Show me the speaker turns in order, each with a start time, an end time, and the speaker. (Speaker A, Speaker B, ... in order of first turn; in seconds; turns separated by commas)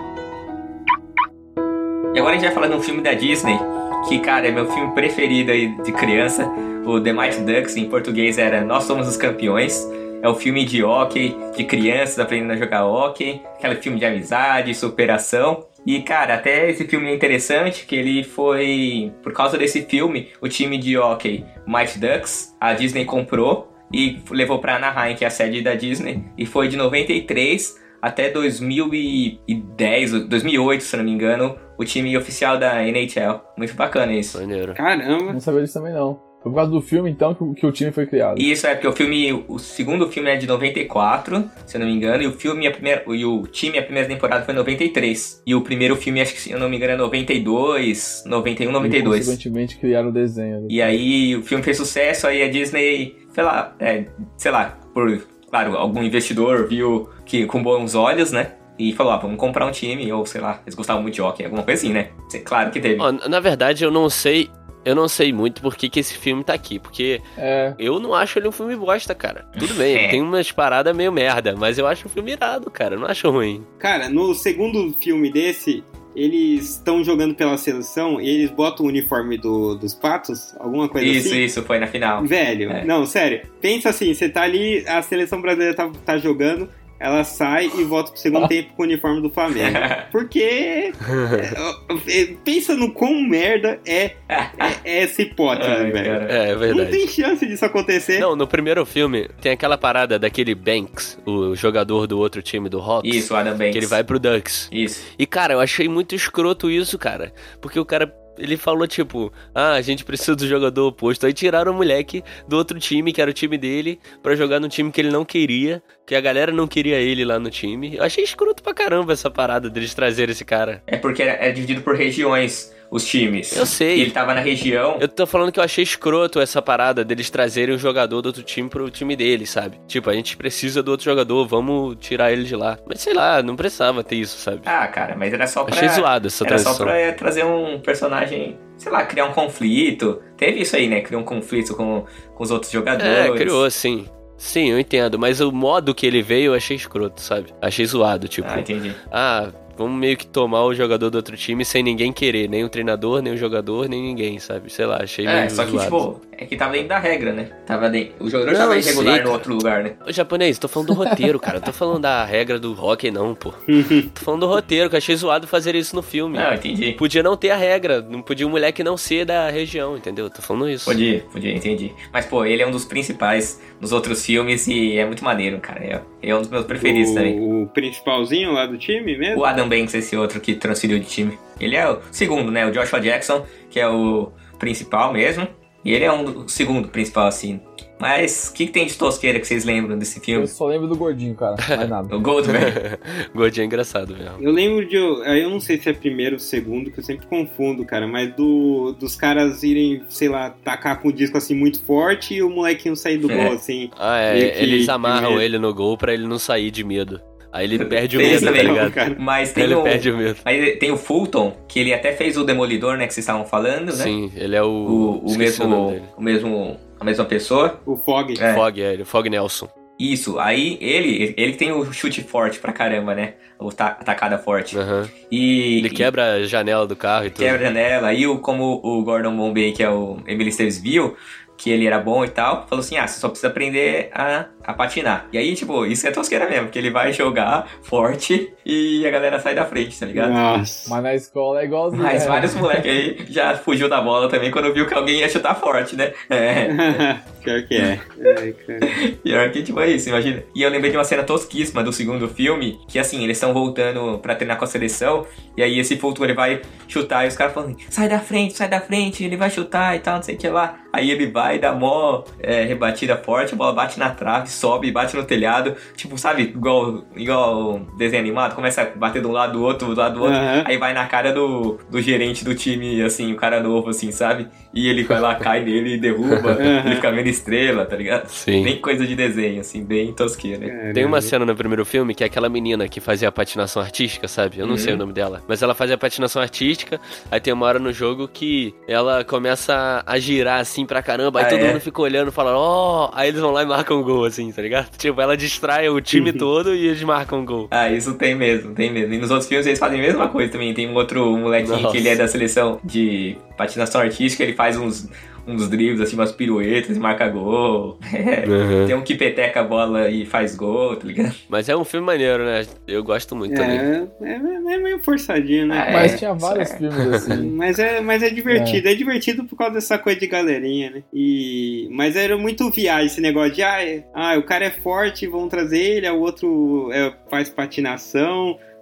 Speaker A: 2.1-34.4, Speaker B: 34.3-34.8, Speaker C: 34.8-35.4, Speaker D: 35.3-38.5, Speaker A: 38.4-49.4, Speaker D: 48.8-51.0, Speaker A: 50.7-63.0, Speaker B: 63.0-67.2, Speaker D: 67.4-67.8, Speaker B: 67.8-73.7, Speaker A: 69.6-70.2, Speaker C: 73.8-81.4, Speaker A: 81.0-82.9, Speaker C: 82.2-98.3, Speaker A: 89.5-90.1, Speaker B: 91.1-91.5, Speaker A: 94.3-94.8, Speaker A: 95.5-96.4, Speaker B: 96.3-97.1, Speaker B: 98.2-120.8, Speaker A: 103.0-104.0, Speaker A: 104.7-105.0, Speaker A: 120.9-125.0, Speaker B: 123.5-124.1, Speaker B: 125.0-134.7, Speaker A: 134.7-143.6, Speaker B: 135.7-136.9, Speaker B: 143.0-156.0, Speaker A: 148.4-149.0, Speaker A: 155.2-159.9, Speaker B: 158.5-159.5, Speaker B: 160.0-163.6, Speaker C: 163.7-164.1, Speaker B: 164.1-171.0, Speaker A: 166.3-167.0, Speaker A: 170.8-177.4, Speaker C: 176.7-179.5, Speaker A: 179.3-190.5, Speaker D: 190.3-192.2, Speaker A: 192.1-192.8, Speaker B: 192.4-194.4, Speaker C: 194.4-205.4, Speaker A: 203.3-203.6, Speaker B: 203.9-209.0, Speaker A: 207.8-214.1, Speaker C: 208.2-209.2, Speaker B: 209.5-210.4, Speaker B: 213.9-216.1, Speaker A: 214.8-217.8, Speaker C: 217.8-218.4, Speaker A: 218.4-218.6, Speaker B: 218.5-219.7, Speaker A: 220.0-226.1, Speaker B: 224.7-225.1, Speaker B: 225.8-227.6, Speaker A: 227.4-240.3, Speaker C: 240.1-240.9, Speaker D: 240.9-242.8, Speaker A: 241.9-247.0, Speaker C: 246.7-248.9, Speaker A: 248.8-280.7, Speaker C: 270.2-270.7, Speaker B: 275.1-275.4, Speaker B: 276.3-276.6, Speaker C: 276.6-277.1, Speaker B: 278.3-278.7, Speaker C: 280.6-281.3, Speaker B: 280.9-297.7, Speaker A: 284.6-285.0, Speaker A: 291.4-291.8, Speaker C: 296.1-296.5, Speaker A: 297.7-311.3, Speaker B: 301.6-302.2, Speaker B: 308.4-308.9, Speaker B: 311.5-313.9, Speaker C: 313.5-316.2, Speaker A: 315.7-316.8, Speaker D: 315.9-317.6, Speaker B: 317.0-317.2, Speaker C: 317.3-328.6, Speaker D: 318.5-318.8